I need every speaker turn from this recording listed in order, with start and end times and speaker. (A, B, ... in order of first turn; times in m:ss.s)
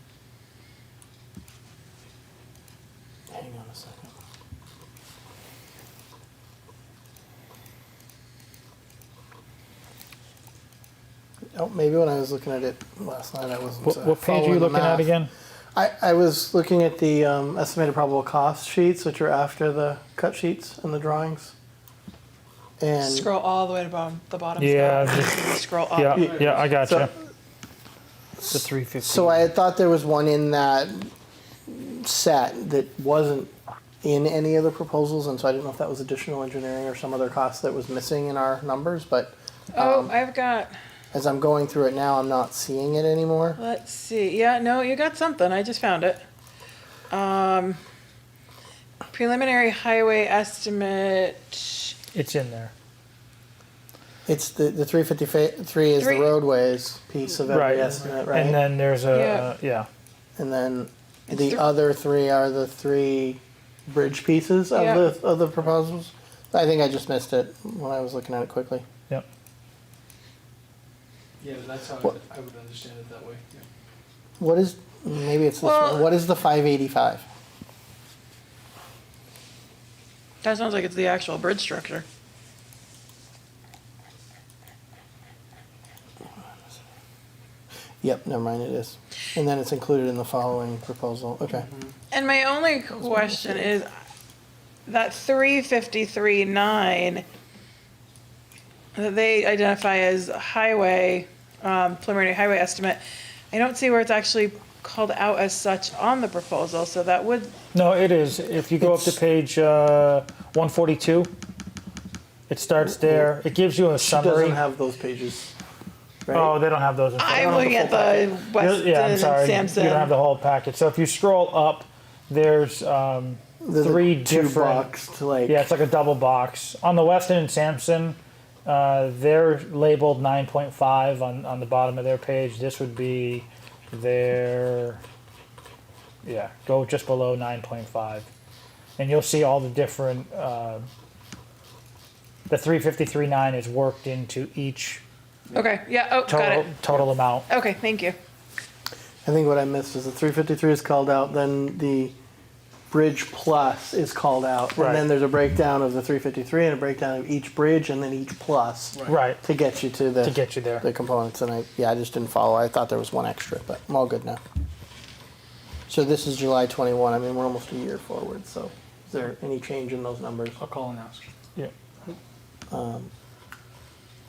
0:03.3-0:04.1 A
0:11.6-0:15.1 A
0:13.8-0:15.3 B
0:15.8-0:21.5 A
0:22.8-0:23.3 A
0:23.0-0:26.4 C
0:24.6-0:25.4 B
0:25.9-0:27.1 B
0:26.1-0:27.1 A
0:26.3-0:26.6 D
0:28.5-0:29.5 B
0:29.0-0:31.1 A
0:31.7-0:33.5 A
0:34.0-0:40.1 A
0:39.8-0:40.7 C
0:41.1-0:43.6 A
0:43.6-0:46.2 C
0:47.1-0:47.8 C
0:49.1-0:52.0 C
0:52.1-0:52.7 B
0:54.3-0:58.6 A
0:56.0-0:56.3 C
0:57.5-0:59.9 B
0:59.1-0:59.5 C
1:00.4-1:08.8 A
1:01.3-1:01.6 C
1:04.7-1:05.0 C
1:11.4-1:13.7 D
1:14.4-1:17.2 A
1:15.6-1:16.0 C
1:20.4-1:22.0 C
1:28.0-1:31.7 A
1:32.1-1:33.9 C
1:34.9-1:37.2 C
1:39.0-1:43.0 C
1:43.5-1:47.5 C
1:47.7-1:51.3 B
1:48.8-1:49.2 A
1:52.5-1:54.6 B
1:52.8-1:53.3 A
1:54.0-1:55.5 A
1:56.2-1:56.6 A
1:56.3-1:57.8 B
1:57.2-2:00.1 C
1:57.3-1:58.3 A
1:58.6-2:04.9 B
2:03.6-2:05.6 A
2:05.5-2:15.0 B
2:16.2-2:18.3 B
2:19.0-2:20.8 B
2:22.5-2:25.0 B
2:25.5-2:25.8 D
2:25.5-2:26.7 C
2:26.2-2:27.5 B
2:27.5-2:28.2 C
2:29.2-2:32.2 A
2:32.9-2:44.4 A
2:34.8-2:35.1 B
2:39.1-2:39.4 B
2:40.2-2:40.9 B
2:45.9-2:50.6 A
2:50.6-2:51.3 D
2:52.7-2:53.1 A